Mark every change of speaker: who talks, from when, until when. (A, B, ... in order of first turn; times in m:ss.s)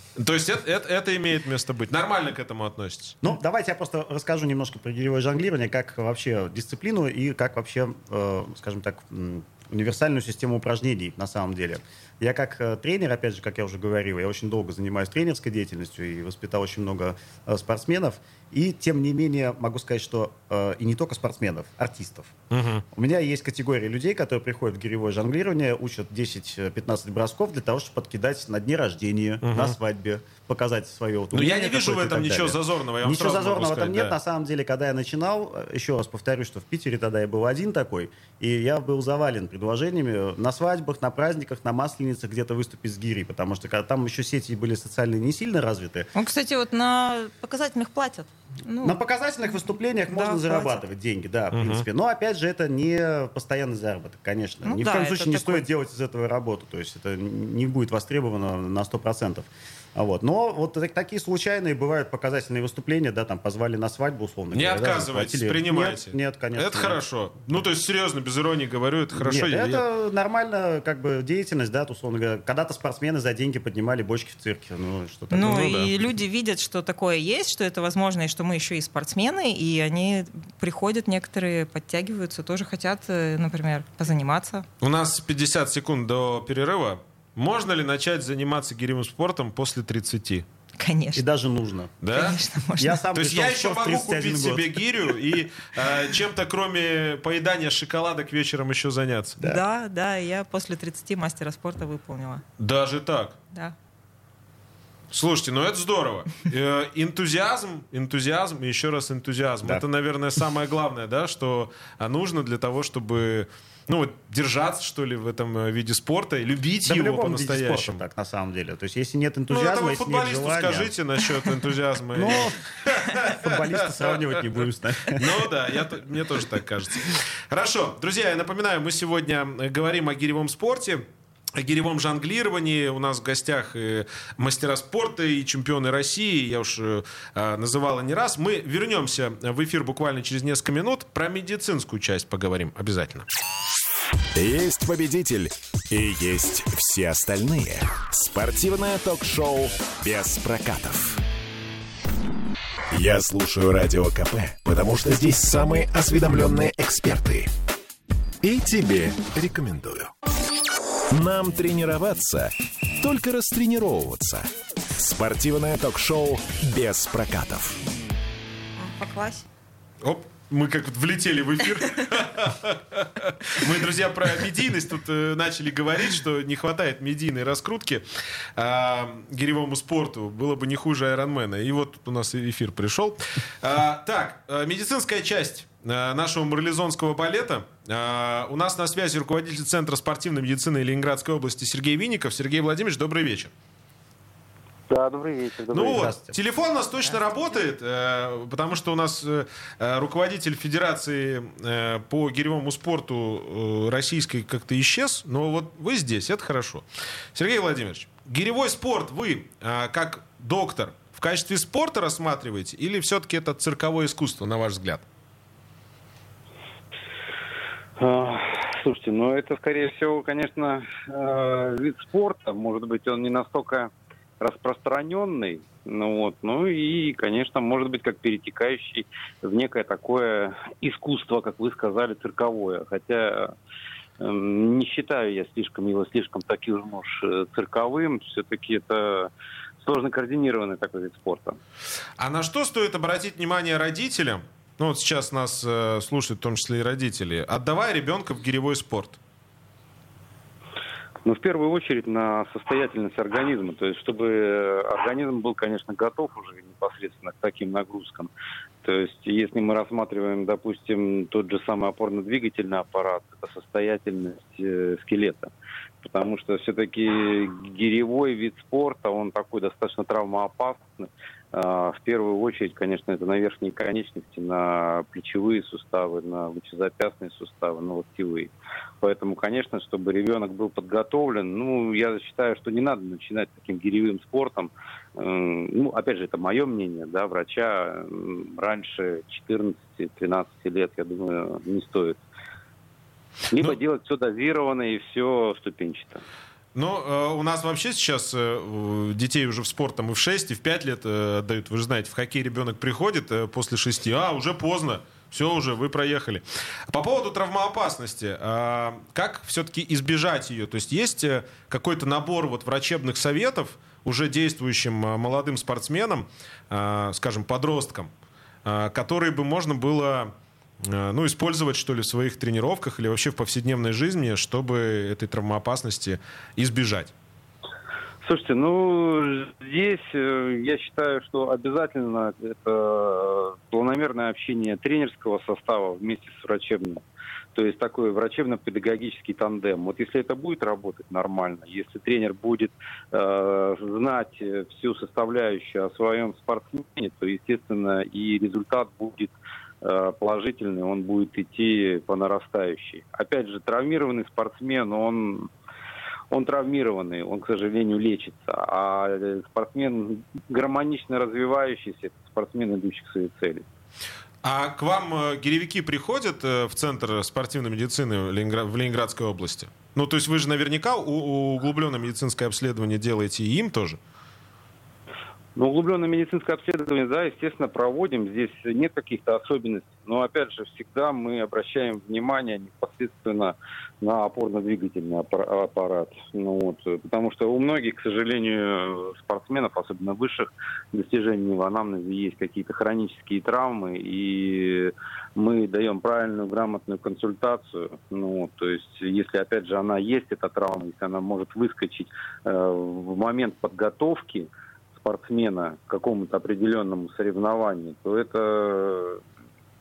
0:00.2-0:03.2 A
0:03.2-0:22.4 B
0:22.5-0:22.8 A
0:22.9-0:46.1 B
0:29.4-0:29.8 A
0:31.3-0:34.2 A
0:46.2-0:49.0 C
0:48.8-1:07.0 B
0:50.1-0:50.8 C
0:51.5-0:51.8 A
0:54.6-0:55.7 C
1:04.5-1:09.8 A
1:09.1-1:15.9 B
1:15.3-1:24.7 C
1:15.4-1:15.9 A
1:24.8-1:30.5 A
1:30.8-1:31.2 C
1:31.2-1:32.0 B
1:32.0-1:32.4 A
1:32.1-1:33.0 C
1:32.8-1:35.1 B
1:33.2-1:39.4 A
1:39.4-1:42.4 C
1:42.6-1:43.4 A
1:45.1-1:58.0 A
1:56.8-2:00.9 B
1:59.5-2:11.0 A
2:02.2-2:05.5 B
2:11.6-2:23.3 A
2:24.4-2:31.2 D
2:32.9-2:37.5 D
2:38.4-2:40.1 D
2:41.1-2:47.8 D
2:48.8-2:49.5 C
2:50.0-2:58.0 A
2:58.6-3:13.5 A
3:14.9-3:16.2 E
3:15.7-3:35.0 A
3:15.8-3:16.4 B
3:17.0-3:17.6 C
3:38.0-3:53.6 E
3:54.2-4:01.6 E
4:02.2-4:09.2 A
4:11.2-4:18.3 E
4:18.8-4:25.5 E
4:26.0-4:52.2 E
4:53.5-4:56.2 E
4:56.8-5:18.1 A
5:18.6-5:27.1 A
5:28.2-5:55.5 E
5:56.3-6:03.6 E
6:04.4-6:14.0 A
6:15.6-6:49.2 E